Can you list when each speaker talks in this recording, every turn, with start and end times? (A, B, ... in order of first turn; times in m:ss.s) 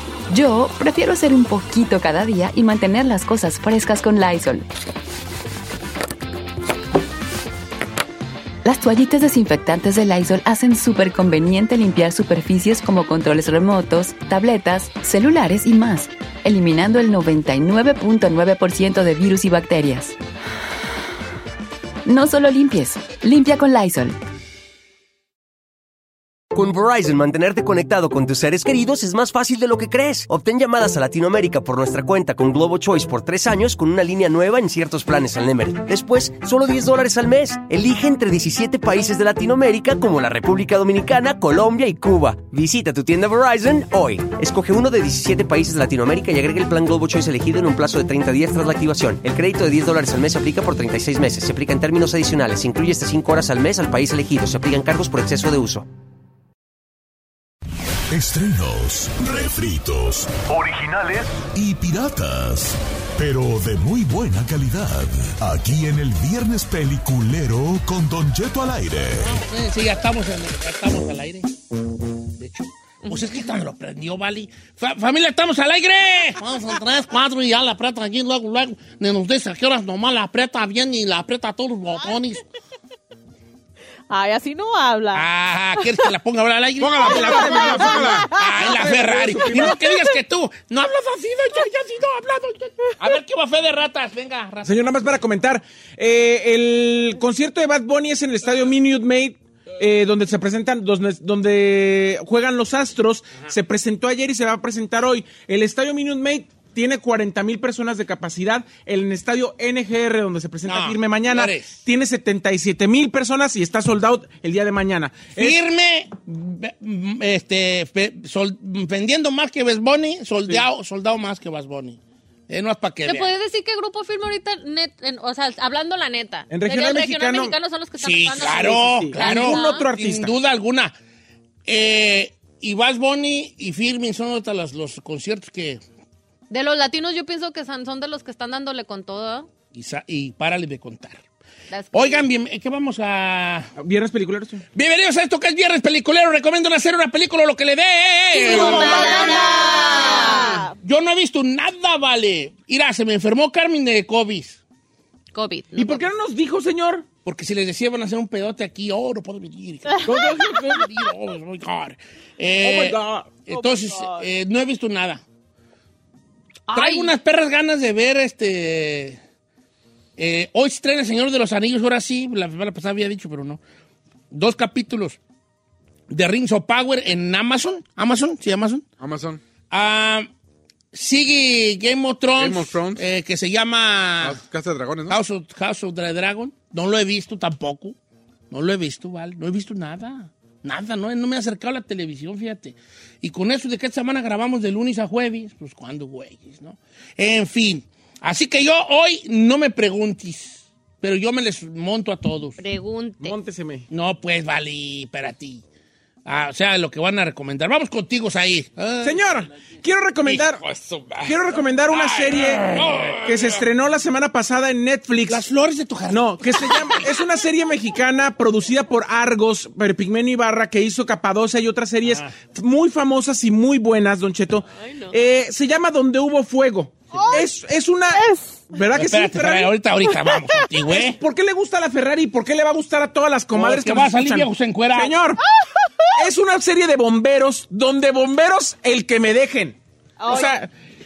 0:00.3-0:04.6 A
0:08.6-0:20.2 A
0:22.1-0:24.2 A
0:26.5-0:55.9 B
0:58.1-1:09.4 C
1:09.2-1:11.5 D
1:12.4-1:22.4 D
1:13.0-1:13.4 E
1:24.1-1:25.3 F
1:25.1-1:34.8 D
1:26.8-1:28.3 G
1:27.0-1:28.6 F
1:27.2-1:29.8 H
1:29.3-1:29.8 F
1:34.6-1:55.6 H
1:50.6-1:51.8 D
1:55.4-2:03.3 D
2:03.1-2:09.9 E
2:06.5-2:07.6 H
2:08.0-2:10.9 D
2:08.4-2:10.3 H
2:11.7-2:15.8 D
2:16.5-2:19.5 E
2:19.7-2:21.2 D
2:21.7-2:22.2 E
2:21.9-2:23.7 D
2:23.8-2:24.6 H
2:24.7-2:29.5 D
2:28.4-2:30.6 E
2:28.4-2:30.6 H
2:28.4-2:30.8 F
2:30.8-2:34.6 D
2:35.3-2:36.1 E
2:35.8-2:37.0 H
2:37.2-2:45.2 D
2:39.9-2:40.5 F
2:40.0-2:40.9 H
2:42.6-2:43.4 H
2:43.5-2:44.3 F
2:46.7-2:47.1 E
2:46.7-2:49.2 D
2:50.2-2:53.6 D
2:54.3-2:55.2 D
2:56.1-2:58.8 D
2:59.0-2:59.4 G
2:59.7-3:00.3 D
3:00.9-3:04.4 D
3:02.4-3:03.0 G
3:04.2-3:05.2 G
3:05.1-3:08.0 D
3:08.5-3:22.6 D
3:22.6-3:23.4 E
3:23.2-3:23.9 H
3:23.9-3:25.6 D
3:26.3-3:29.2 D
3:29.0-3:30.6 H
3:30.6-3:31.4 G
3:31.2-3:35.4 H
3:31.9-3:33.2 D
3:35.3-3:37.1 D
3:36.1-3:49.8 H
3:42.0-3:42.4 D
3:44.8-3:45.1 E
3:47.1-3:47.5 F
3:48.1-3:48.7 F
3:48.9-3:51.2 D
3:50.2-3:50.6 F
3:50.9-3:55.4 H
3:53.5-3:55.2 D
3:55.4-3:56.2 F
3:56.2-4:00.7 H
4:00.2-4:00.7 F